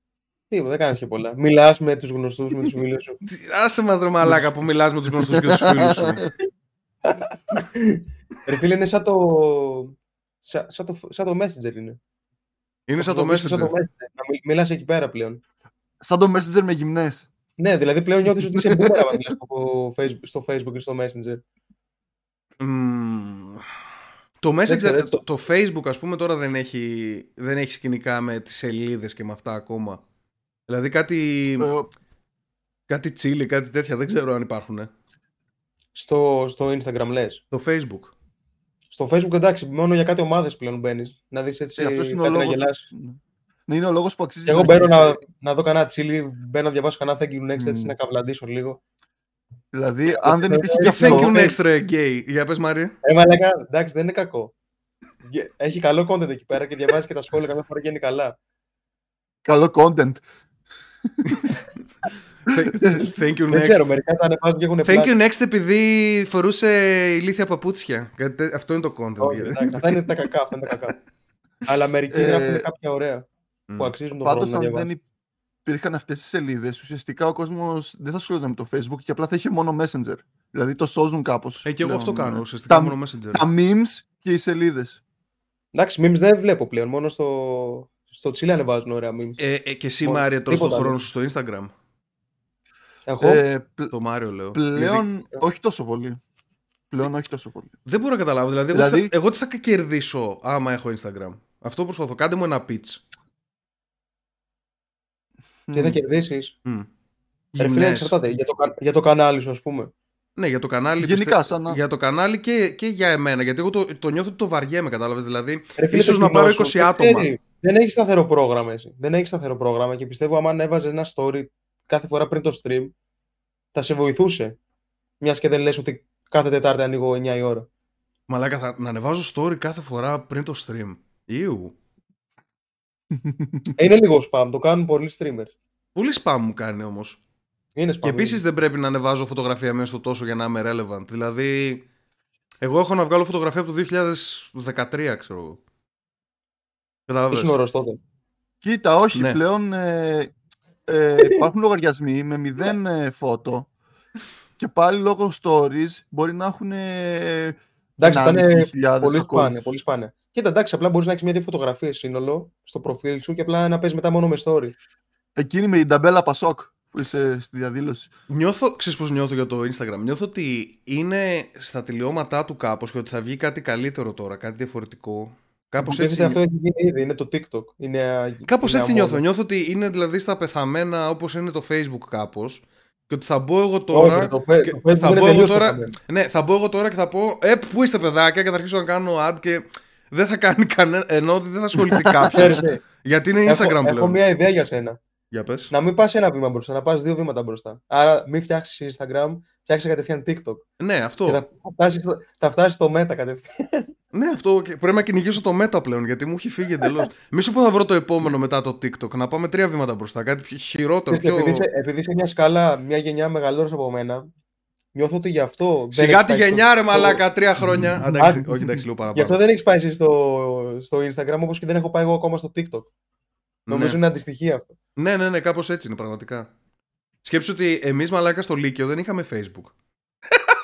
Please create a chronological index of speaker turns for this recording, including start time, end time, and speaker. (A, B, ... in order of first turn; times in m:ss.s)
0:00.5-0:03.2 A
0:03.2-0:06.2 B
0:04.2-0:04.5 C
0:05.1-0:06.3 C
0:07.1-0:12.0 A
0:12.9-0:13.7 B
0:13.0-0:15.4 A
0:16.0-0:17.3 C
0:17.6-0:21.4 A
0:22.6-0:23.6 B
0:24.4-0:30.0 B
0:24.7-0:25.2 A
0:30.7-0:31.7 B
0:31.6-0:31.9 C
0:32.9-0:34.9 B
0:35.9-0:37.4 A
0:37.5-0:38.1 B
0:38.9-0:42.8 A
0:41.8-0:45.2 C
0:44.5-0:48.8 A
0:47.5-0:47.9 C
0:49.7-0:51.3 C
0:50.1-0:51.6 A
0:50.8-0:52.9 B
0:53.0-0:54.5 A
0:55.2-0:58.3 A
0:59.4-1:00.2 C
1:01.2-1:01.5 B
1:02.5-1:03.9 B
1:02.5-1:03.0 C
1:03.5-1:05.1 A
1:04.8-1:10.1 B
1:09.2-1:11.0 A
1:11.6-1:13.3 A
1:12.1-1:12.6 C
1:13.8-1:14.9 A
1:14.2-1:15.0 C
1:15.6-1:25.0 C
1:21.6-1:23.4 B
1:25.7-1:29.4 A
1:29.4-1:31.7 B
1:30.0-1:31.0 A
1:33.1-1:33.4 A
1:33.2-1:33.9 C
1:33.9-1:35.0 B
1:34.5-1:36.2 C
1:36.9-1:37.7 C
1:37.8-1:43.0 B
1:38.7-1:39.1 C
1:45.7-1:46.0 C
1:45.7-1:46.5 A
1:47.5-1:48.1 B
1:47.6-1:49.9 A
1:50.4-1:57.3 B
1:51.0-1:51.8 C
1:55.8-2:02.9 A
2:03.7-2:04.6 A
2:05.2-2:07.7 A
2:08.3-2:11.8 B
2:13.2-2:13.7 C
2:13.8-2:15.5 A
2:16.0-2:17.2 B
2:17.8-2:18.4 A
2:18.0-2:21.8 B
2:22.6-2:25.6 B
2:27.1-2:27.5 B
2:27.3-2:28.0 A
2:28.6-2:30.3 C
2:29.1-2:29.4 B
2:30.9-2:33.7 C
2:34.6-2:39.7 C
2:38.0-2:44.7 A
2:45.4-2:48.1 C
2:48.3-2:56.4 B
2:55.8-2:59.2 A
2:58.4-3:14.2 B
3:03.9-3:05.9 A
3:12.1-3:12.4 C
3:12.3-3:12.8 A
3:13.4-3:15.0 A
3:15.3-3:15.7 B
3:15.7-3:20.6 A
3:20.8-3:21.4 B
3:21.2-3:23.9 A
3:24.1-3:31.6 B
3:31.1-3:34.3 A
3:34.9-3:37.2 A
3:35.9-3:39.4 B
3:37.6-3:38.7 C
3:38.2-3:38.4 A
3:39.1-3:42.9 A
3:43.7-3:44.0 B
3:43.7-3:44.7 A
3:45.0-3:46.5 B
3:47.2-3:49.7 B